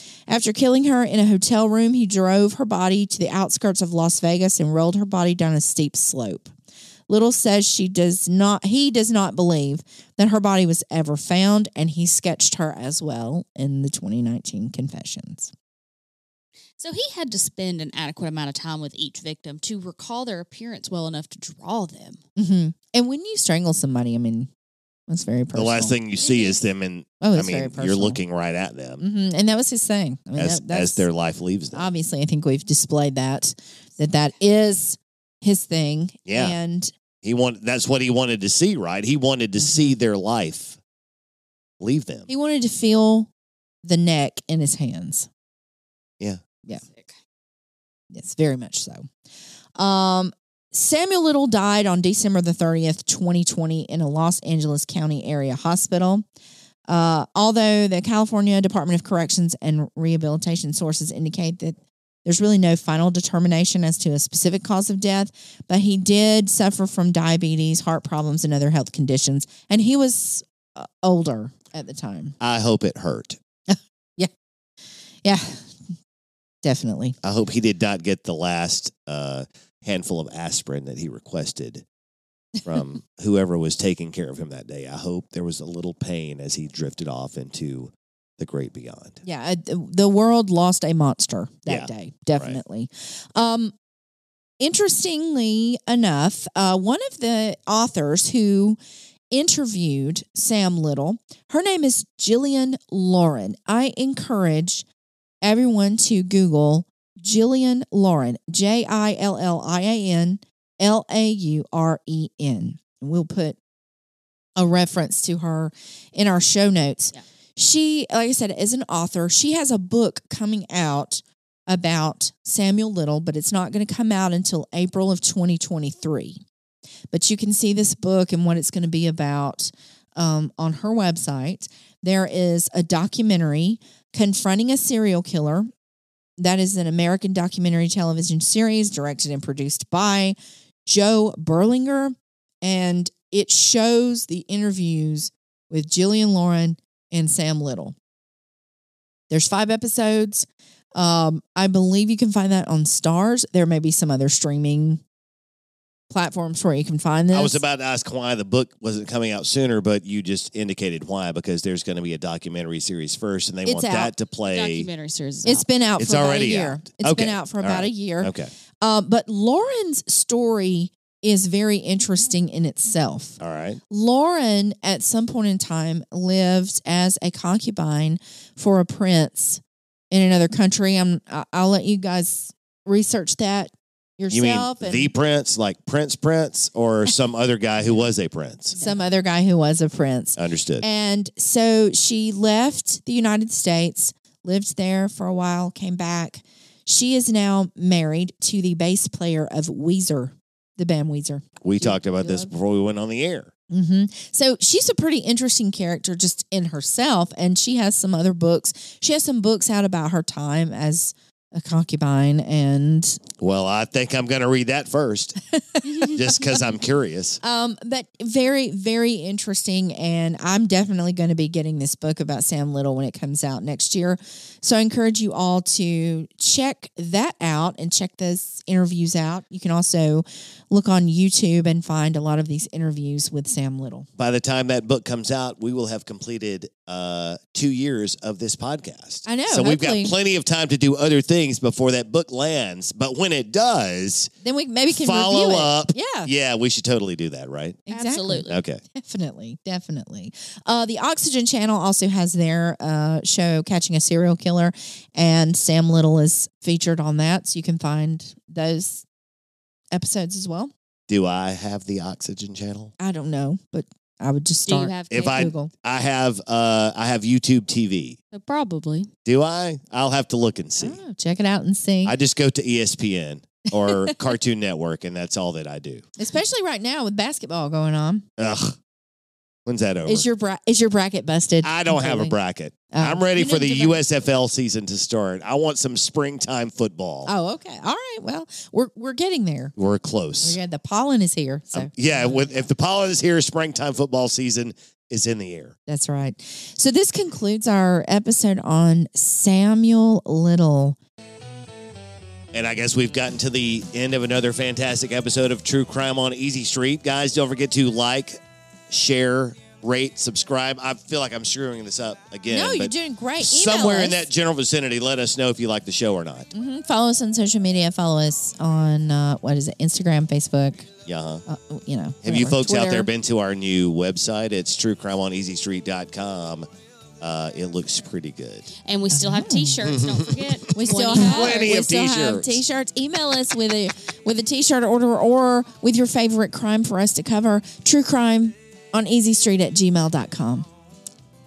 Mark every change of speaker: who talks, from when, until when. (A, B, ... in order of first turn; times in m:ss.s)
0:00.3-0:06.5 A
0:07.1-0:15.5 A
0:16.8-0:22.2 B
0:22.4-0:24.5 A
0:25.1-0:26.0 A
0:25.5-0:29.0 C
0:26.2-0:26.6 B
0:27.2-0:28.2 A
0:29.0-0:31.0 A
0:30.4-0:31.9 C
0:31.7-0:36.9 A
0:36.3-0:36.6 C
0:37.2-0:40.8 C
0:39.6-0:40.0 A
0:41.8-0:42.3 C
0:42.3-0:43.3 A
0:43.8-0:45.3 A
0:46.8-0:47.2 B
0:48.1-0:49.1 A
0:49.8-0:56.2 A
0:56.9-1:12.4 A
1:12.4-1:13.4 C
1:13.7-1:14.3 A
1:15.2-1:15.8 A
1:16.6-1:17.2 A
1:17.2-1:21.8 C
1:22.6-1:29.2 C
1:29.2-1:33.7 A
1:31.7-1:32.6 C
1:34.6-1:38.8 A
1:39.3-1:44.8 A
1:45.4-1:53.6 A
1:54.6-2:06.4 A
2:07.1-2:15.7 A
2:16.4-2:28.0 A
2:29.3-2:35.0 A
2:36.1-2:37.6 A
2:37.3-2:44.9 C
2:43.7-2:44.1 A
2:44.5-2:45.7 B
2:45.4-2:59.6 A
2:46.0-2:48.5 C
2:53.4-2:53.8 C
3:00.1-3:05.1 A
3:04.3-3:08.8 C
3:08.8-3:22.5 A
3:10.4-3:10.8 C
3:21.6-3:23.5 C
3:23.7-3:33.2 A
3:33.4-3:35.4 C
3:35.5-3:36.4 A
3:35.9-3:36.2 B
3:36.1-3:37.4 C
3:37.4-3:54.1 A
3:54.2-4:04.3 C
3:59.3-4:00.1 A
4:04.4-4:06.3 A
4:04.9-4:07.8 C
4:07.9-4:19.0 A
4:07.9-4:08.6 B
4:08.5-4:08.8 C
4:19.9-4:20.7 A
4:21.1-4:22.9 C
4:23.0-4:25.7 A
4:24.7-4:25.5 B
4:25.1-4:28.2 C
4:28.3-4:29.1 B
4:29.2-4:31.0 C
4:30.8-4:32.1 A
4:32.0-4:36.0 C
4:33.8-4:34.2 A
4:36.2-4:38.3 A
4:38.4-4:38.8 C
4:39.7-4:40.3 C
4:40.1-4:42.4 A
4:41.6-4:47.3 C
4:42.9-4:44.0 A
4:47.3-4:49.7 A
4:49.8-4:50.6 C
4:50.4-4:52.6 A
4:51.7-4:55.8 C
4:55.9-5:01.0 A
5:02.5-5:08.4 C
5:08.9-5:16.5 C
5:12.5-5:14.3 A
5:16.5-5:20.9 A
5:21.1-5:21.4 C
5:21.5-5:23.1 A
5:22.2-5:26.7 C
5:27.2-5:28.7 C
5:28.8-5:31.7 B
5:29.1-5:29.9 A
5:29.8-5:32.6 C
5:30.7-5:40.7 A